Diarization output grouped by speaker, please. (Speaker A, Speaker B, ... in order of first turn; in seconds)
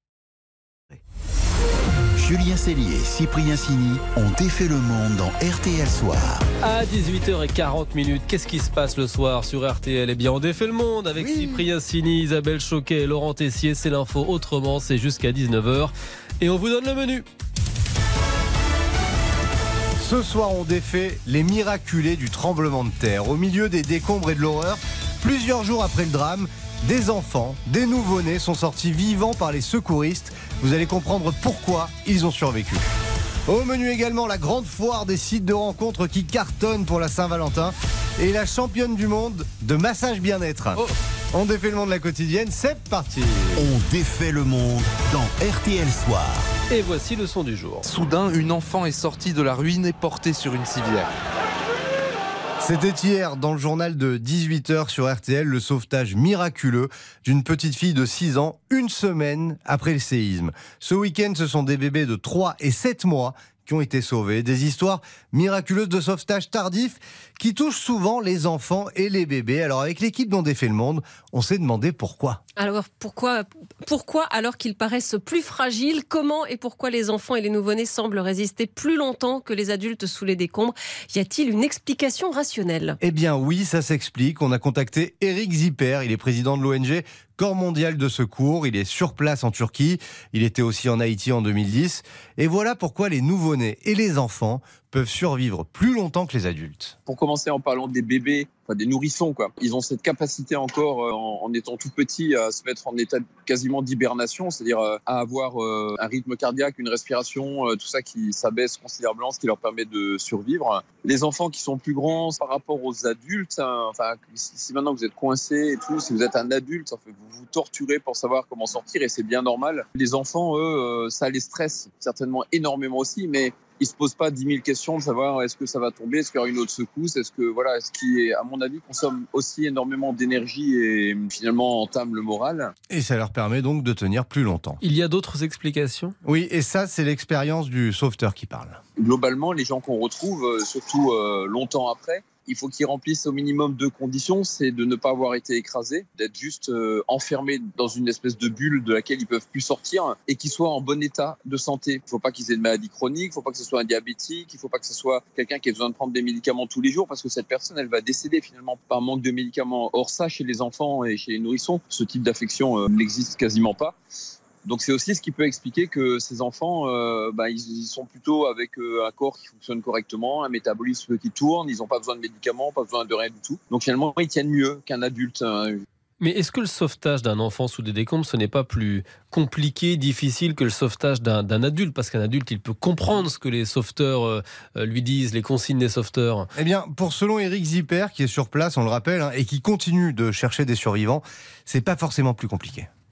Speaker A: 2.2-6.5, 43.6-46.5
Speaker B: 6.6-17.2, 46.7-47.8, 134.8-136.1, 176.2-186.5
Speaker C: 11.2-11.7, 20.0-32.8, 33.5-43.7, 52.6-72.4, 83.0-96.9, 132.9-134.8, 136.2-138.8, 186.5-192.9
Speaker D: 47.8-51.1
Speaker E: 72.6-83.0
Speaker F: 97.0-132.7, 139.0-163.9, 164.6-175.8